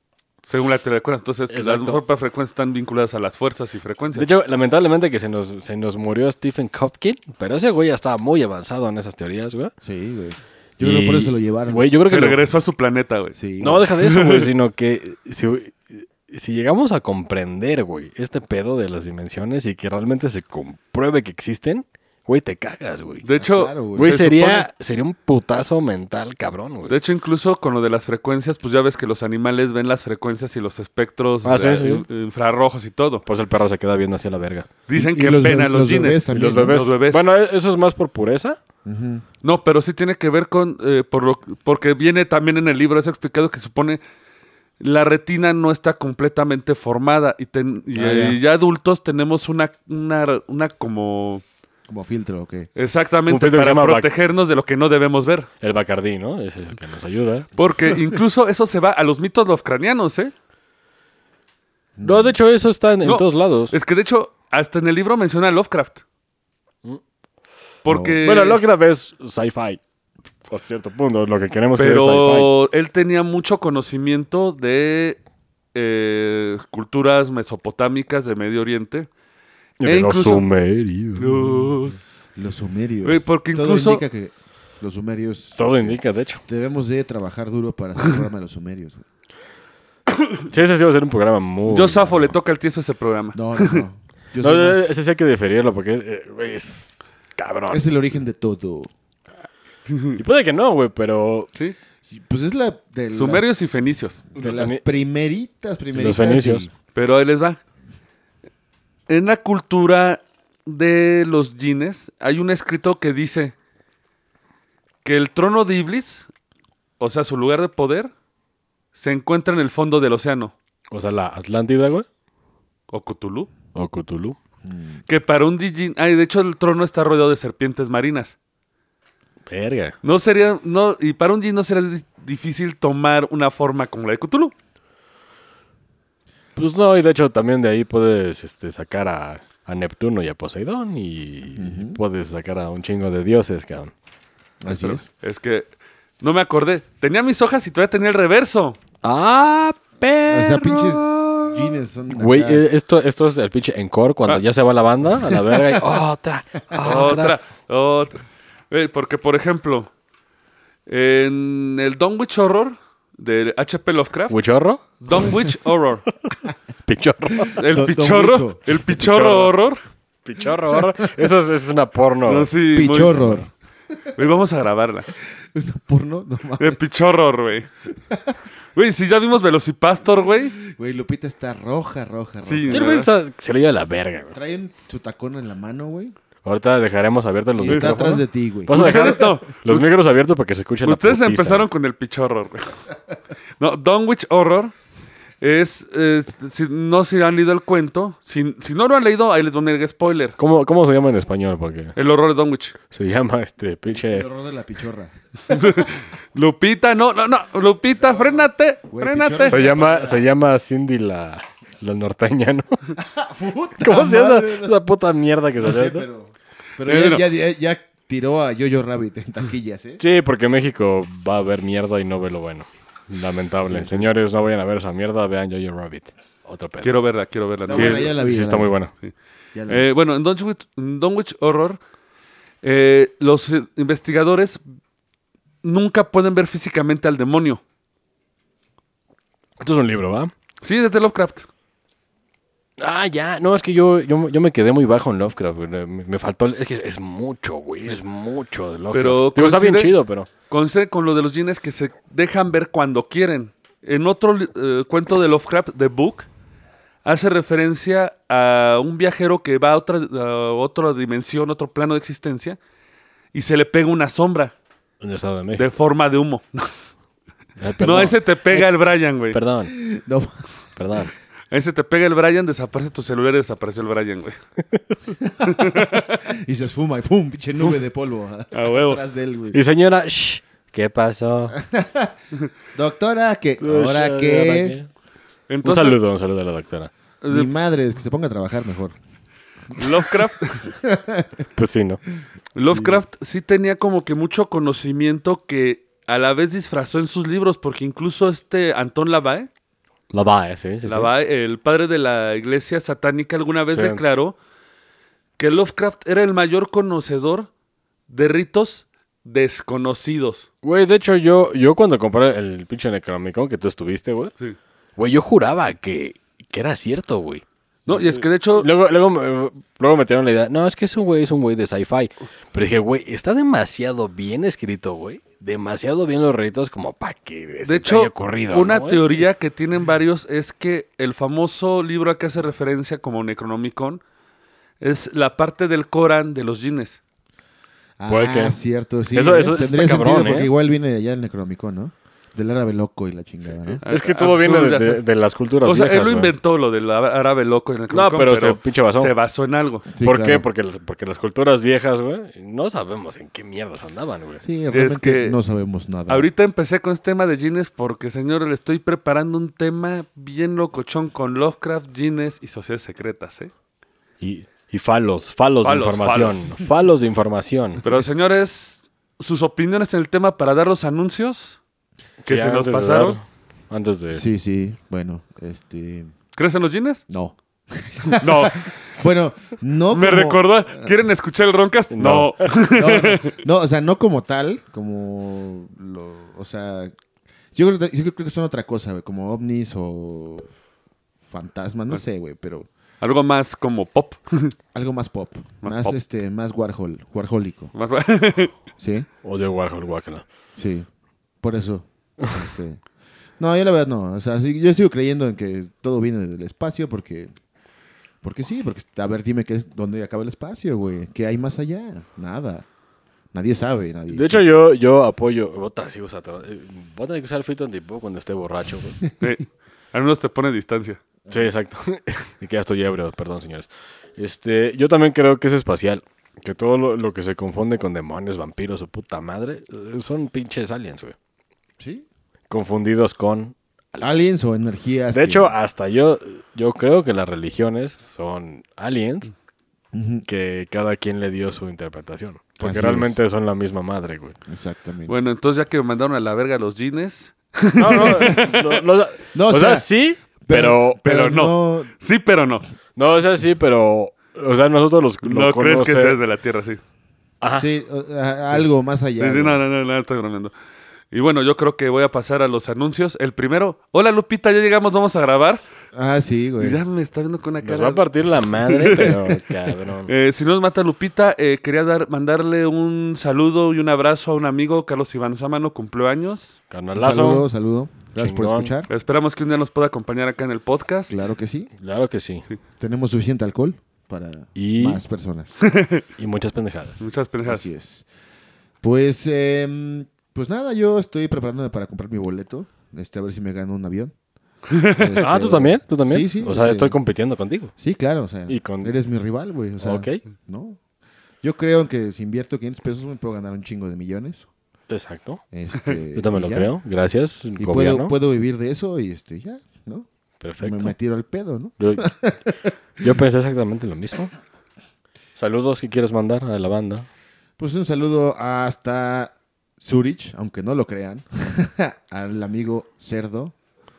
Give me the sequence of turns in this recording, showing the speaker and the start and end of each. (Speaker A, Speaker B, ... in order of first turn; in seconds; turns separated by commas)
Speaker A: 0.5-4.3, Speaker B: 1.5-2.0, Speaker B: 4.2-9.7, Speaker C: 9.8-11.9, Speaker B: 10.8-12.4, Speaker A: 12.1-13.3, Speaker C: 13.3-13.9, Speaker B: 13.6-23.2, Speaker A: 14.0-14.5, Speaker A: 23.2-24.7, Speaker C: 23.4-24.3, Speaker B: 23.9-27.0, Speaker A: 26.9-33.2, Speaker B: 31.4-32.1, Speaker B: 33.3-34.7, Speaker A: 34.9-37.2, Speaker C: 34.9-36.9, Speaker B: 36.3-38.6, Speaker C: 38.9-39.2, Speaker A: 39.4-44.0, Speaker A: 44.8-51.4, Speaker B: 47.9-48.4, Speaker C: 51.9-52.7, Speaker A: 52.8-55.5, Speaker B: 53.3-54.1, Speaker B: 55.6-57.5, Speaker A: 57.6-60.3, Speaker C: 62.0-62.4, Speaker B: 62.0-63.8, Speaker A: 63.0-66.0, Speaker A: 67.8-68.6, Speaker C: 67.9-68.2, Speaker B: 68.2-69.8, Speaker B: 70.5-72.5, Speaker A: 71.8-75.2, Speaker A: 75.7-79.1, Speaker B: 79.8-81.3, Speaker A: 79.8-80.5, Speaker A: 81.2-82.0, Speaker C: 81.2-89.0, Speaker A: 83.0-84.0, Speaker B: 85.6-86.4, Speaker B: 90.5-92.3, Speaker A: 91.7-93.8, Speaker C: 93.3-95.0, Speaker B: 94.4-97.8, Speaker C: 97.7-98.9, Speaker A: 99.9-100.2, Speaker B: 100.2-101.5, Speaker C: 102.1-103.5, Speaker A: 103.1-104.2, Speaker C: 104.3-106.7, Speaker B: 104.4-104.8, Speaker B: 105.9-106.7, Speaker A: 106.9-107.6, Speaker A: 109.1-113.5, Speaker A: 115.0-116.3, Speaker A: 117.0-118.1, Speaker A: 118.9-120.5, Speaker B: 120.9-122.1, Speaker A: 122.9-123.5, Speaker B: 123.7-124.4, Speaker C: 124.6-125.0, Speaker A: 125.1-128.4, Speaker B: 129.5-130.0, Speaker A: 130.0-134.5, Speaker B: 136.6-143.9, Speaker C: 141.6-142.0, Speaker C: 144.6-145.1, Speaker A: 144.7-148.8, Speaker B: 149.0-157.4, Speaker C: 150.3-152.6, Speaker A: 156.8-159.9, Speaker A: 160.9-164.4, Speaker B: 164.3-165.0, Speaker A: 165.0-166.1, Speaker B: 166.2-167.6, Speaker A: 167.6-169.8, Speaker C: 167.6-168.8, Speaker B: 169.0-169.5, Speaker B: 170.2-172.5, Speaker A: 172.3-173.3, Speaker C: 172.7-174.1, Speaker B: 173.2-173.4, Speaker A: 174.2-175.1, Speaker C: 175.5-176.8, Speaker A: 176.6-177.7, Speaker C: 178.1-178.3, Speaker A: 178.8-180.5, Speaker C: 180.5-182.9, Speaker A: 182.4-183.1, Speaker B: 182.7-184.3, Speaker C: 184.3-186.1, Speaker B: 186.4-191.7, Speaker C: 187.6-189.3, Speaker A: 188.7-189.9, Speaker A: 190.8-192.8, Speaker A: 193.6-194.7, Speaker A: 195.4-200.4, Speaker B: 200.4-201.9, Speaker A: 202.0-202.8, Speaker B: 202.9-204.3, Speaker C: 203.9-205.9, Speaker A: 205.5-209.7, Speaker C: 208.0-210.3, Speaker B: 209.5-212.8, Speaker C: 213.0-214.8, Speaker B: 213.8-216.1, Speaker C: 215.6-220.0, Speaker A: 216.8-217.2, Speaker B: 220.0-226.9, Speaker C: 223.2-224.1, Speaker A: 226.8-228.1, Speaker C: 227.7-228.7, Speaker B: 227.7-228.9, Speaker C: 229.5-229.9, Speaker A: 229.7-231.8, Speaker A: 232.6-234.6, Speaker A: 235.6-237.6, Speaker B: 239.6-240.3, Speaker A: 240.6-241.5, Speaker B: 242.8-250.3, Speaker A: 248.9-250.0, Speaker A: 250.5-256.3, Speaker A: 257.1-262.6, Speaker A: 263.3-264.5, Speaker B: 265.0-265.7, Speaker A: 265.6-266.7, Speaker B: 267.6-268.7, Speaker C: 267.6-268.1, Speaker A: 267.8-269.4, Speaker B: 269.3-269.7, Speaker C: 269.7-270.3, Speaker B: 270.8-271.1, Speaker A: 271.5-274.4, Speaker C: 275.2-279.6, Speaker A: 275.5-276.2, Speaker A: 278.5-279.0, Speaker B: 279.5-281.6, Speaker C: 281.6-282.1, Speaker C: 282.8-284.8, Speaker B: 283.6-284.9, Speaker A: 285.5-286.0, Speaker B: 285.6-286.9, Speaker A: 287.2-287.5, Speaker C: 287.3-289.0, Speaker A: 289.8-290.7, Speaker C: 290.8-291.3, Speaker B: 291.6-292.0, Speaker A: 292.6-299.5, Speaker C: 292.6-293.0, Speaker B: 300.1-301.1, Speaker A: 300.9-304.4, Speaker B: 303.7-304.0, Speaker A: 305.4-307.5, Speaker A: 308.1-310.5, Speaker B: 310.6-314.3, Speaker B: 315.0-329.2, Speaker A: 317.9-318.7, Speaker A: 327.7-334.0, Speaker A: 334.8-337.0, Speaker C: 338.0-343.8, Speaker B: 338.1-338.6, Speaker B: 339.1-340.5, Speaker A: 343.8-345.0, Speaker B: 343.9-346.3, Speaker A: 345.6-349.9, Speaker B: 347.9-349.1, Speaker C: 349.9-350.5, Speaker B: 350.0-354.4, Speaker C: 354.4-356.3, Speaker A: 354.7-355.4, Speaker A: 356.1-363.5, Speaker B: 364.2-367.8, Speaker A: 365.6-366.6, Speaker A: 367.8-371.6, Speaker A: 372.2-373.2, Speaker B: 372.3-374.2, Speaker C: 374.1-376.1, Speaker A: 376.4-377.0, Speaker C: 377.1-380.9, Speaker A: 378.1-378.7, Speaker A: 379.9-383.4, Speaker B: 381.9-382.3, Speaker C: 382.8-386.9, Speaker C: 387.6-390.5, Speaker C: 391.3-392.7, Speaker A: 393.0-394.5, Speaker C: 394.7-397.7, Speaker A: 395.6-396.0, Speaker A: 397.7-398.5, Speaker C: 398.8-399.1, Speaker B: 399.2-400.2, Speaker C: 400.6-400.9, Speaker C: 401.4-402.8, Speaker C: 403.4-407.3, Speaker C: 408.2-412.6, Speaker C: 413.3-414.4, Speaker B: 414.1-419.0, Speaker A: 419.2-421.0, Speaker C: 421.3-421.5, Speaker B: 421.3-431.1, Speaker C: 431.8-432.1, Speaker B: 432.5-434.1, Speaker C: 434.0-435.5, Speaker B: 435.1-439.3, Speaker C: 439.9-440.3, Speaker B: 440.3-444.4, Speaker C: 442.6-443.2, Speaker C: 444.5-445.2, Speaker A: 445.1-448.8, Speaker B: 447.8-451.0, Speaker C: 448.0-448.4, Speaker C: 449.3-451.9, Speaker A: 451.1-452.6, Speaker B: 453.0-456.2, Speaker A: 455.2-456.8, Speaker B: 457.4-457.7, Speaker C: 457.5-459.6, Speaker A: 459.2-460.5, Speaker A: 461.1-465.6, Speaker C: 465.9-466.8, Speaker A: 466.6-468.0, Speaker B: 467.6-470.1, Speaker A: 468.6-469.2, Speaker A: 470.1-476.6, Speaker B: 476.7-477.5, Speaker C: 476.9-478.9, Speaker B: 478.2-478.7, Speaker A: 478.9-481.2, Speaker C: 481.1-481.7, Speaker B: 481.8-482.5, Speaker C: 482.8-485.6, Speaker B: 484.6-485.0, Speaker A: 485.6-486.0, Speaker B: 486.2-487.0, Speaker A: 487.0-487.7, Speaker C: 487.5-488.1, Speaker C: 488.8-494.1, Speaker A: 494.7-495.2, Speaker C: 494.8-497.0, Speaker B: 495.2-497.7, Speaker C: 497.8-500.8, Speaker B: 498.5-498.9, Speaker B: 499.8-500.2, Speaker C: 501.4-504.5, Speaker B: 504.9-505.4, Speaker C: 505.5-506.7, Speaker B: 506.1-508.1, Speaker C: 507.6-510.1, Speaker B: 510.4-510.9, Speaker C: 510.6-513.1, Speaker B: 511.8-512.1, Speaker B: 513.0-514.3, Speaker B: 515.4-517.1, Speaker C: 517.6-523.5